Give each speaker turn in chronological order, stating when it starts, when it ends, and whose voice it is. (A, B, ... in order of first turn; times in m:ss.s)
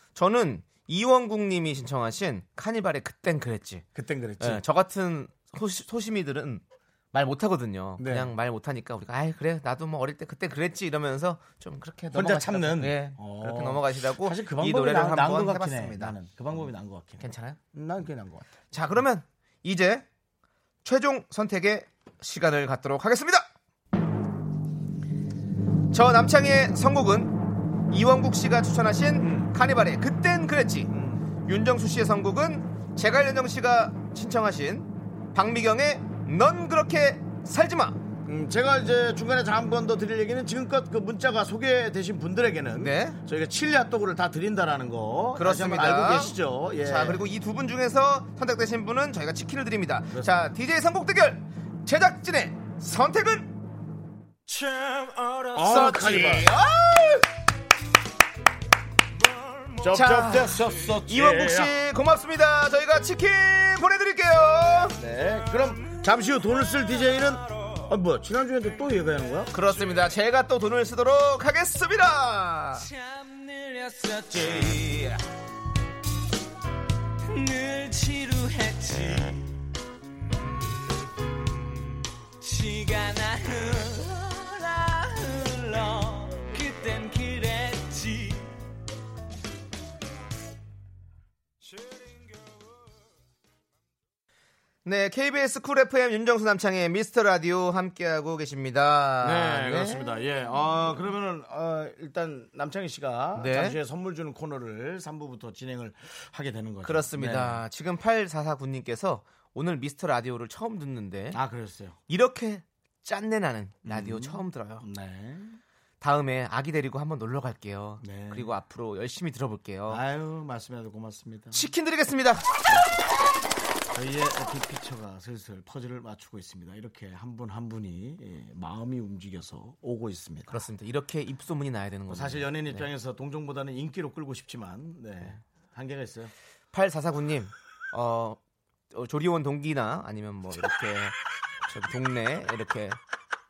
0:00.2-0:03.8 A
0:04.0-0:04.6 B
0:04.4-0:06.6 A
0:07.1-0:16.1 A
0:08.0-0:08.3 B
0:12.1-0:18.6 B
0:17.2-0:17.6 A
0:18.7-0:20.0 A
0:20.8-0:23.4 A
0:25.9-0:30.9 A
0:29.2-0:29.5 B
0:30.9-0:31.3 B
0:31.4-0:38.0 A
0:38.2-0:47.2 B
0:42.8-0:43.2 A
0:45.4-0:53.5 A
0:55.5-0:56.5 B
0:55.5-0:57.2 A
0:59.8-1:01.7 B
0:59.9-1:05.0 A
1:05.0-1:09.5 B
1:09.5-1:12.9 A
1:13.1-1:14.0 C
1:17.3-1:19.2 C
1:22.5-1:23.8 C
1:24.6-1:28.3 C
1:34.8-1:40.0 A
1:39.2-1:47.6 B
1:43.3-1:43.8 A
1:46.8-1:51.4 A
1:51.3-1:52.0 B
1:52.1-1:54.8 A
1:53.8-1:55.6 B
1:56.0-2:00.0 A
1:58.0-1:58.5 B
1:59.9-2:01.7 B
2:01.5-2:02.5 A
2:03.9-2:10.6 B
2:10.5-2:12.9 A
2:12.1-2:16.3 B
2:16.7-2:18.4 A
2:18.9-2:21.2 A
2:21.7-2:23.0 A